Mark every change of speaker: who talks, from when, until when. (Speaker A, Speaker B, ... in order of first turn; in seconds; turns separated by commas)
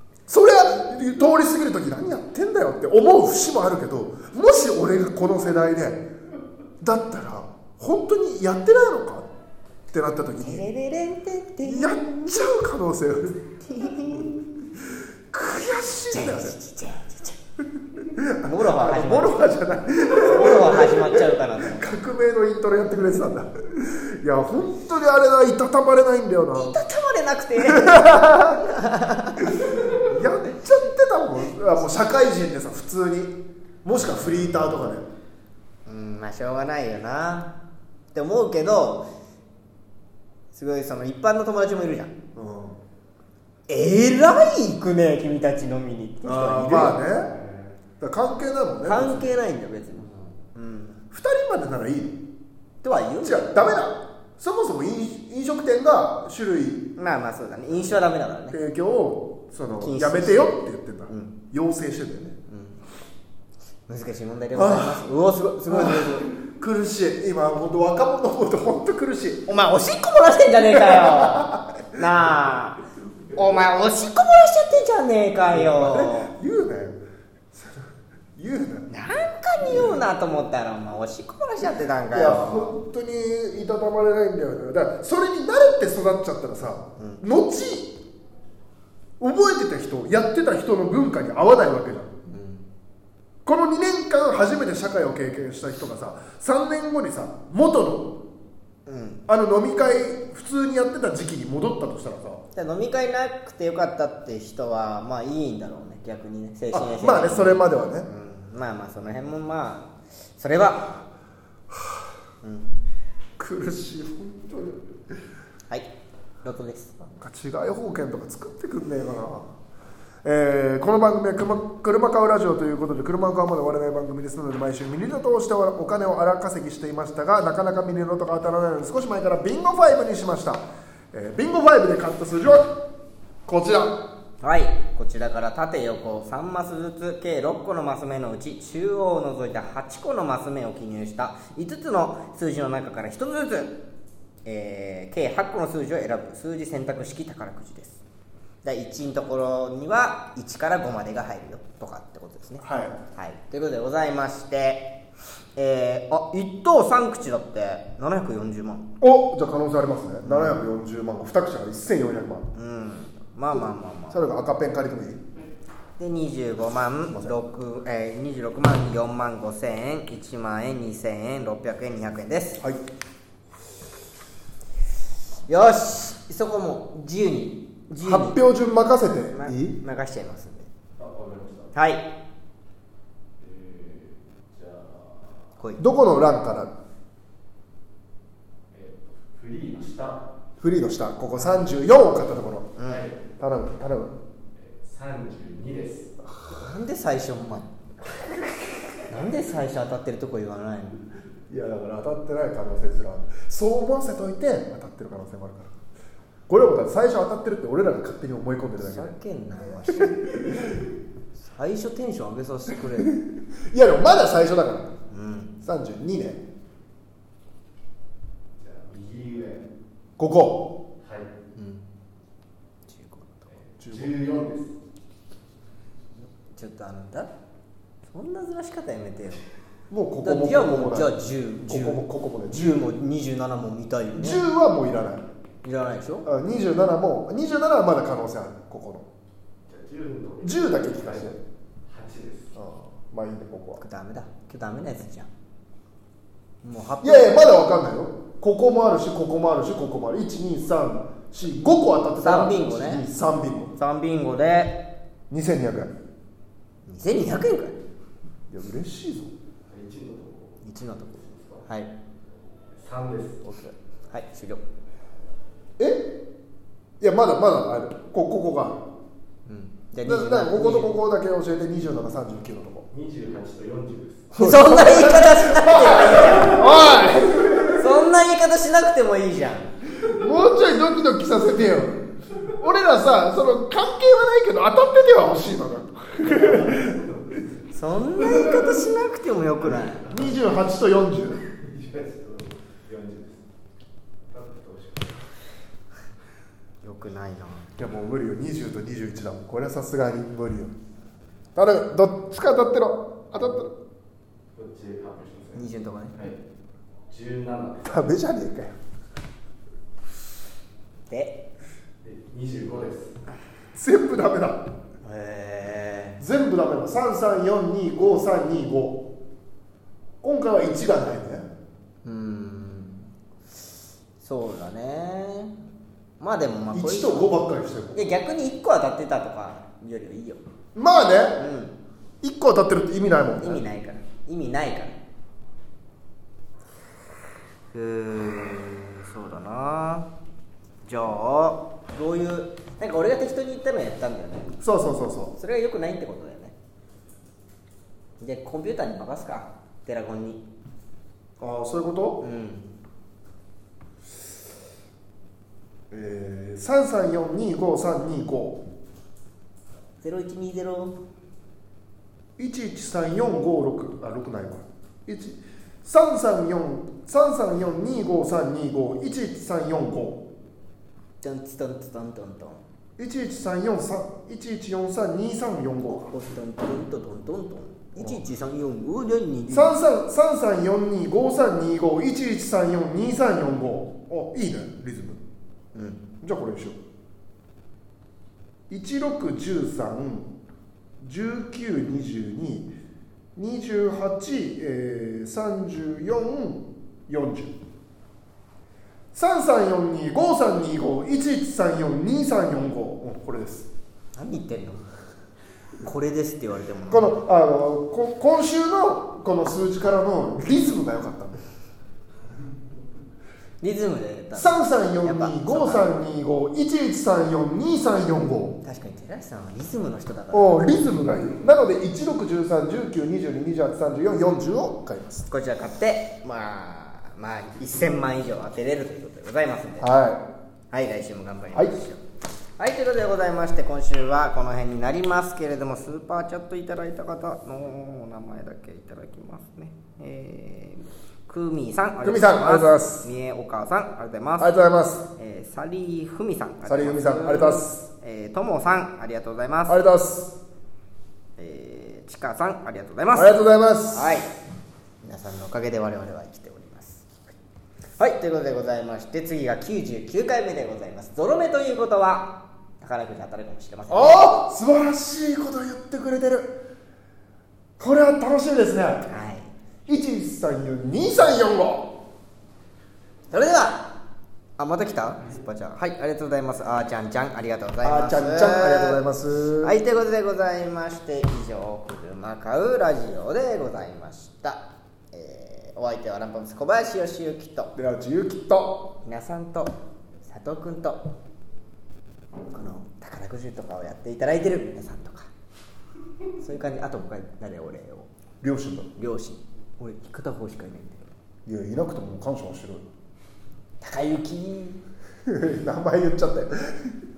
Speaker A: 0.3-6.1, Speaker A: 6.8-9.3, Speaker A: 9.9-10.7, Speaker B: 10.4-12.2, Speaker A: 11.6-13.4, Speaker B: 13.6-14.4, Speaker A: 14.8-16.6, Speaker B: 16.1-17.4, Speaker A: 17.8-26.8, Speaker B: 18.4-19.5, Speaker B: 20.0-21.9, Speaker B: 26.5-29.8, Speaker A: 27.6-28.7, Speaker A: 29.4-35.1, Speaker B: 35.9-37.6, Speaker B: 38.1-39.1, Speaker B: 40.5-42.1, Speaker A: 42.4-42.8, Speaker B: 43.7-47.0, Speaker A: 46.2-47.4, Speaker A: 48.0-49.3, Speaker B: 48.8-51.0, Speaker A: 51.1-52.2, Speaker B: 52.8-53.8, Speaker A: 53.2-56.9, Speaker B: 57.0-58.6, Speaker A: 58.5-62.4, Speaker B: 59.8-60.5, Speaker B: 61.1-61.4, Speaker B: 62.5-62.8, Speaker B: 63.9-66.3, Speaker A: 64.5-65.1, Speaker A: 65.7-69.5, Speaker B: 69.5-72.8, Speaker A: 70.7-71.8, Speaker B: 73.3-76.3, Speaker A: 75.5-77.0, Speaker A: 77.5-78.9, Speaker B: 78.9-82.7, Speaker A: 82.1-88.0, Speaker B: 87.0-87.2, Speaker A: 89.2-92.1, Speaker B: 92.3-92.7, Speaker A: 93.5-98.2, Speaker B: 98.9-99.2, Speaker A: 99.3-102.4, Speaker B: 102.5-111.0, Speaker A: 106.7-108.1, Speaker A: 111.7-112.0, Speaker B: 112.4-112.8, Speaker A: 113.4-114.8, Speaker B: 116.4-117.0, Speaker A: 117.0-119.5, Speaker A: 120.2-132.8, Speaker A: 133.5-134.0, Speaker B: 134.4-143.8, Speaker B: 144.4-148.0, Speaker B: 148.6-155.0, Speaker A: 152.6-153.0, Speaker B: 155.6-158.9, Speaker A: 159.0-162.5, Speaker B: 160.2-160.6, Speaker B: 162.6-164.2, Speaker A: 163.5-165.2, Speaker B: 166.0-172.6, Speaker B: 175.5-178.4, Speaker A: 177.9-179.8, Speaker B: 179.3-180.7, Speaker C: 181.0-181.7, Speaker B: 181.7-182.1, Speaker C: 183.4-185.4, Speaker A: 185.8-186.7, Speaker C: 188.7-190.3, Speaker A: 190.6-192.8, Speaker B: 192.8-193.1, Speaker C: 192.9-193.3, Speaker A: 193.4-194.2, Speaker C: 194.6-196.1, Speaker B: 196.5-197.7, Speaker A: 198.3-198.6, Speaker B: 199.1-201.0, Speaker A: 201.5-205.7, Speaker A: 206.5-209.2, Speaker B: 208.8-210.7, Speaker A: 209.9-210.7, Speaker B: 211.4-213.1, Speaker A: 212.9-214.9, Speaker B: 215.1-215.5, Speaker A: 215.6-216.4, Speaker C: 218.6-219.7, Speaker A: 220.2-220.8, Speaker C: 221.0-221.3, Speaker B: 221.6-221.8, Speaker B: 222.9-223.5, Speaker C: 223.5-224.8, Speaker A: 223.8-224.2, Speaker B: 226.5-227.3, Speaker B: 228.1-229.4, Speaker A: 229.9-232.8, Speaker B: 230.2-234.4, Speaker A: 234.2-235.3, Speaker B: 235.6-236.3, Speaker A: 236.2-239.1, Speaker C: 239.7-241.3, Speaker A: 240.4-241.4, Speaker C: 241.9-242.6, Speaker A: 242.6-243.8, Speaker B: 243.8-245.3, Speaker B: 246.6-247.3, Speaker A: 247.0-253.8, Speaker B: 252.2-253.1, Speaker B: 253.8-254.8, Speaker A: 255.3-256.0, Speaker B: 256.9-257.8, Speaker A: 258.5-259.3, Speaker C: 259.7-260.6, Speaker B: 260.6-261.9, Speaker C: 261.2-261.7, Speaker C: 262.7-263.7, Speaker B: 264.1-264.6, Speaker A: 265.8-266.2, Speaker A: 267.0-268.9, Speaker B: 269.5-270.9, Speaker A: 270.0-272.9, Speaker C: 272.9-274.3, Speaker A: 274.3-277.9, Speaker B: 274.4-276.9, Speaker C: 276.2-276.8, Speaker B: 277.6-279.7, Speaker A: 280.1-287.0, Speaker C: 286.2-287.6, Speaker B: 287.7-290.1, Speaker C: 288.2-288.8, Speaker C: 290.1-290.4, Speaker A: 290.1-291.4, Speaker C: 291.5-293.4, Speaker C: 294.3-295.3, Speaker B: 296.8-297.7, Speaker A: 297.8-300.7, Speaker A: 301.6-303.7, Speaker C: 304.5-306.4, Speaker B: 305.6-306.2, Speaker C: 307.1-308.1, Speaker A: 307.9-308.8, Speaker B: 311.1-311.5, Speaker C: 312.0-313.2, Speaker A: 313.8-314.7, Speaker B: 315.0-316.2, Speaker A: 316.2-319.1, Speaker A: 320.2-321.5, Speaker B: 322.1-323.1, Speaker B: 324.2-325.6, Speaker B: 326.2-327.3, Speaker A: 326.7-328.1, Speaker B: 327.9-330.4, Speaker A: 330.8-331.4, Speaker B: 331.4-331.8, Speaker A: 332.2-333.6, Speaker B: 333.4-335.0, Speaker B: 337.7-340.1, Speaker B: 340.9-344.5, Speaker A: 344.6-345.4, Speaker B: 345.4-346.6, Speaker B: 348.2-350.4, Speaker A: 351.4-352.2, Speaker B: 352.2-352.7, Speaker A: 355.9-358.6, Speaker B: 360.0-361.0, Speaker A: 362.4-370.2, Speaker B: 371.2-372.6, Speaker A: 373.0-376.1, Speaker B: 375.9-379.8, Speaker A: 378.0-378.3, Speaker A: 379.5-385.2, Speaker B: 385.7-386.0, Speaker A: 386.2-386.8, Speaker A: 388.7-390.3, Speaker A: 391.0-392.7, Speaker A: 393.4-397.5, Speaker A: 399.1-403.7, Speaker B: 404.1-405.0, Speaker B: 405.8-407.1, Speaker A: 406.9-411.4, Speaker B: 413.6-415.9, Speaker A: 414.4-418.6, Speaker B: 418.6-420.9, Speaker A: 420.3-425.3, Speaker B: 425.3-429.9, Speaker A: 429.8-430.3, Speaker B: 430.7-432.0, Speaker A: 431.5-431.8, Speaker B: 432.6-444.5, Speaker A: 442.0-443.1, Speaker A: 444.4-445.1, Speaker B: 445.2-449.8, Speaker A: 446.6-447.8, Speaker A: 449.7-450.4, Speaker B: 451.4-453.4, Speaker A: 453.1-454.2, Speaker B: 453.9-454.4, Speaker B: 455.0-457.2, Speaker B: 458.0-464.3, Speaker A: 463.9-466.6, Speaker A: 467.8-469.1, Speaker B: 469.1-469.5, Speaker A: 469.9-471.9, Speaker B: 473.3-474.0, Speaker B: 474.6-479.0, Speaker A: 477.8-479.7, Speaker B: 479.6-487.7, Speaker A: 487.8-488.9, Speaker B: 489.1-489.7, Speaker B: 490.2-491.1, Speaker B: 492.5-495.3, Speaker B: 496.4-498.1, Speaker A: 498.4-498.9, Speaker B: 499.0-501.0, Speaker A: 501.5-502.9, Speaker B: 503.8-504.8, Speaker A: 505.3-507.0